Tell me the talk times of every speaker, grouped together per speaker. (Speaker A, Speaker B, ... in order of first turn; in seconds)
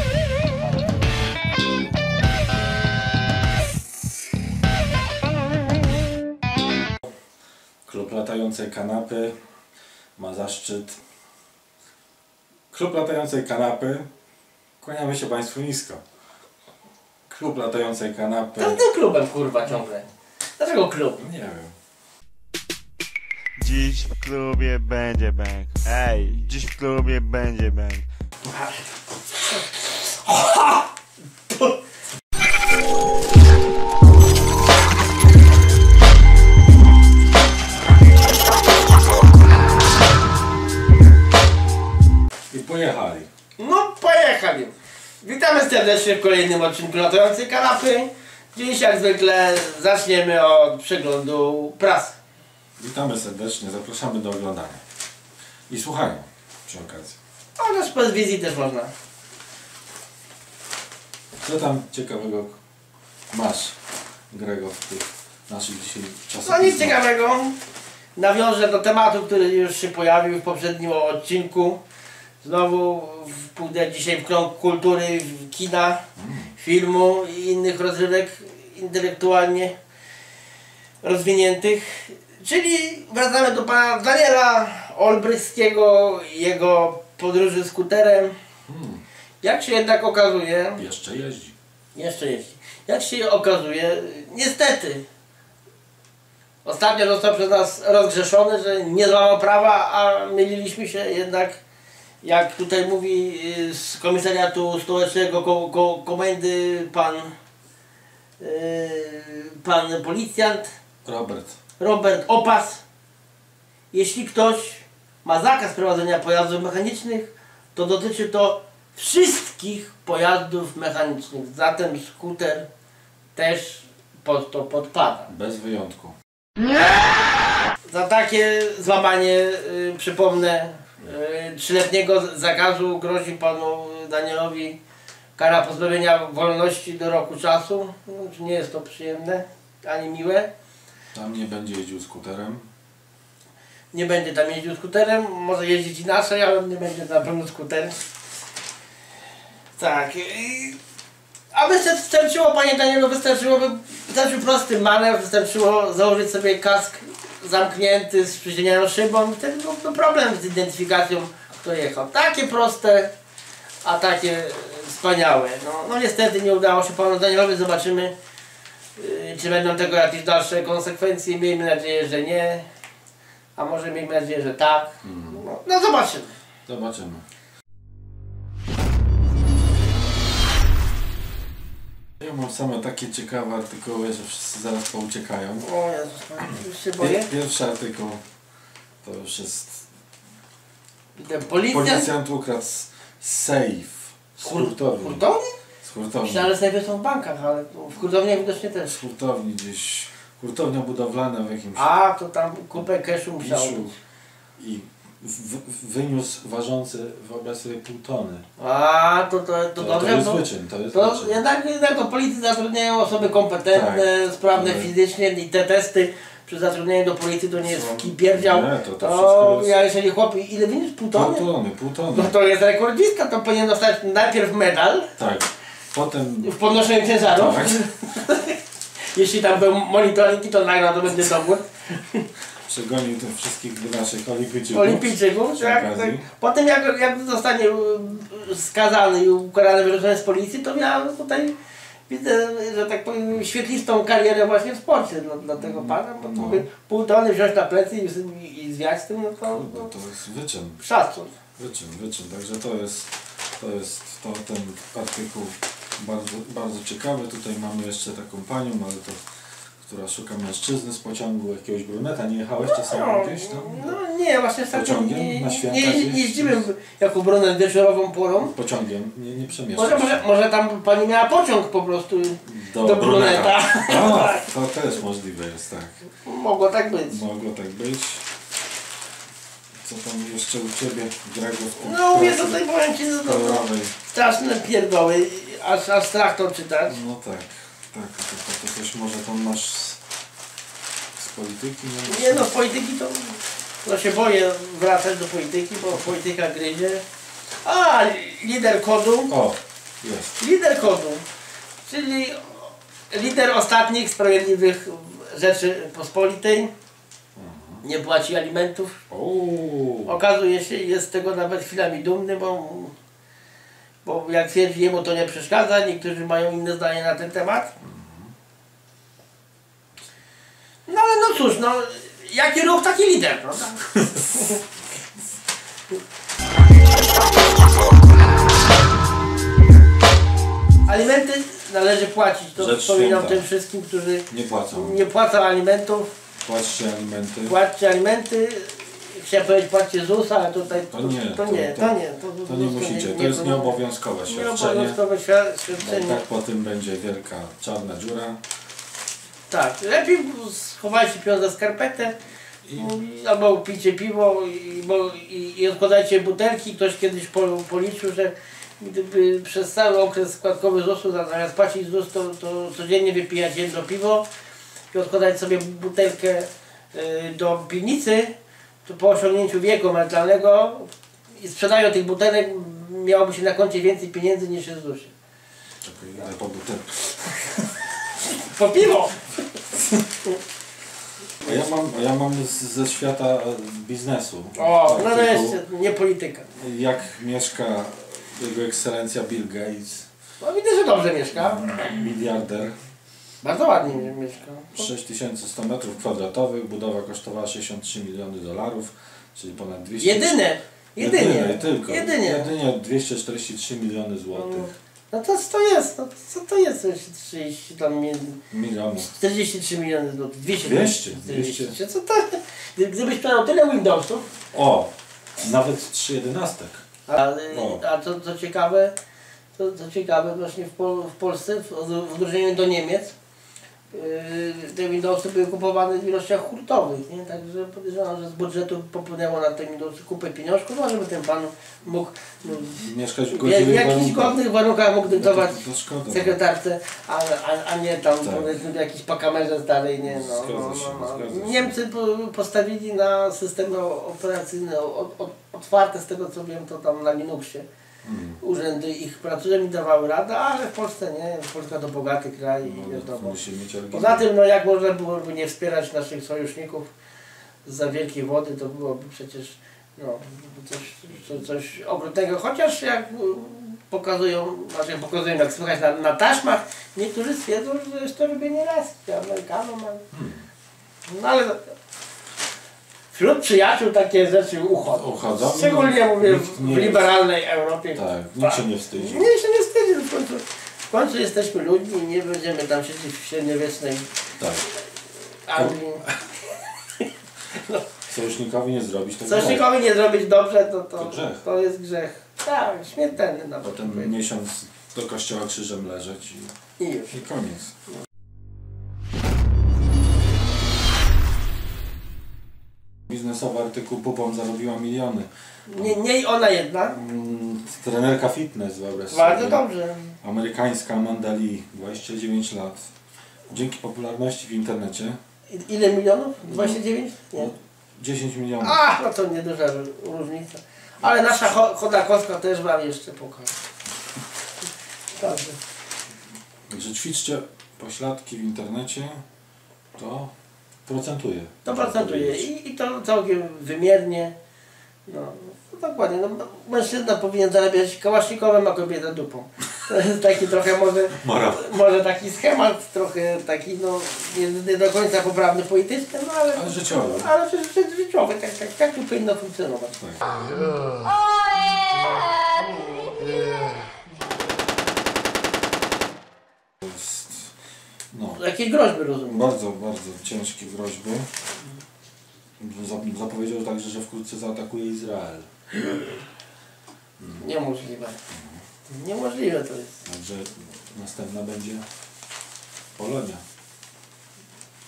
Speaker A: 0.6-0.9, 18.6-21.2, 28.5-28.8, 29.4-30.9, 31.5-31.8, 43.6-52.2, 57.6-58.9, 66.4-67.5, 68.2-71.8, 72.4-76.0, 76.5-79.7, 81.0-88.3, 89.4-90.8, 91.9-95.0, 96.6-101.6, 102.2-107.3, 108.4-110.7, 111.8-112.8, 113.9-122.7, 123.3-125.3, 127.9-134.8, 135.3-140.5, 143.9-148.0, 149.7-150.8, 151.5-163.1, 163.8-168.1, 168.9-172.7, 173.6-176.3, 185.6-187.3, 191.2-192.1, 194.4-195.5, 196.2-199.0, 201.8-203.9, 208.6-221.5, 222.1-225.1, 226.4-228.6, 229.1-232.2, 234.7-241.6, 242.1-249.9, 250.8-251.3, 262.6-268.5, 269.8-274.5, 276.2-277.2, 281.8-287.0, 292.1-297.0, 297.6-299.3, 300.4-301.2, 301.8-306.7, 307.8-308.9, 310.1-312.9, 314.0-317.7, 320.9-324.6, 330.9-336.1, 337.4-343.7, 344.3-346.2, 349.5-352.2, 352.8-364.2, 364.9-375.1, 378.1-379.3, 384.6-386.5, 390.4-391.9, 393.4-394.9, 400.0-402.5, 404.3-408.4, 409.0-414.3, 417.1-418.9, 419.5-423.1, 423.9-447.6, 448.4-453.4, 453.9-456.9, 457.6-470.0, 471.1-471.7, 473.1-484.1, 485.4-486.0, 487.0-487.8, 489.2-494.1, 496.8-497.2, 505.7-507.0, 509.1-510.1, 515.5-517.5, 518.6-523.5, 525.1-525.6, 531.6-534.3, 535.0-550.0, 558.3-559.5, 565.8-566.1, 567.4-568.2, 568.9-570.0
Speaker B: 7.8-9.3, 10.2-11.0, 12.7-14.1, 14.8-16.0, 17.3-18.8, 21.2-21.7, 42.5-43.3, 52.8-54.8, 55.7-57.2, 61.4-62.6, 63.3-63.8, 64.3-67.0, 76.2-76.5, 88.7-89.0, 90.8-91.5, 111.0-111.6, 125.3-126.1, 141.1-142.7, 175.0-175.4, 176.7-177.2, 182.2-185.7, 186.5-188.2, 189.0-189.8, 191.6-195.2, 195.8-196.5, 198.9-201.9, 203.4-203.9, 204.6-208.4, 209.8-211.4, 213.7-214.9, 217.6-219.8, 221.1-222.3, 225.2-226.6, 227.2-227.8, 232.7-236.2, 245.5-246.7, 249.4-250.8, 251.6-259.2, 259.8-264.0, 264.7-266.6, 268.4-270.2, 272.4-276.0, 277.1-278.2, 279.8-282.6, 283.2-283.9, 286.9-290.0, 291.2-292.5, 299.3-300.4, 307.4-307.8, 309.1-310.1, 317.8-318.3, 332.6-333.4, 334.3-335.0, 336.4-337.6, 340.8-345.0, 345.7-348.4, 352.6-352.9, 375.8-377.5, 381.4-385.6, 386.5-390.1, 391.3-392.8, 394.7-400.4, 401.0-404.7, 408.5-409.1, 410.5-411.7, 414.5-416.8, 417.5-417.8, 432.4-434.4, 435.1-436.4, 438.2-438.6, 440.0-441.8, 448.0-448.4, 452.6-454.2, 470.1-470.4, 474.8-477.1, 477.9-479.3, 484.4-484.6, 488.1-489.7, 491.0-491.4, 493.6-496.6, 497.1-497.7, 503.1-505.9, 506.9-509.6, 510.2-512.9, 513.5-515.2, 516.5-516.8, 517.3-518.8, 526.7-529.2, 530.0-530.3, 530.9-532.5, 541.2-541.7, 546.5-547.3, 549.9-550.2, 556.8-557.5, 558.1-558.4, 559.2-561.3, 562.6-565.5, 567.2-567.4, 568.3-568.6, 570.0-571.8, 573.0-573.4
Speaker C: 23.6-28.1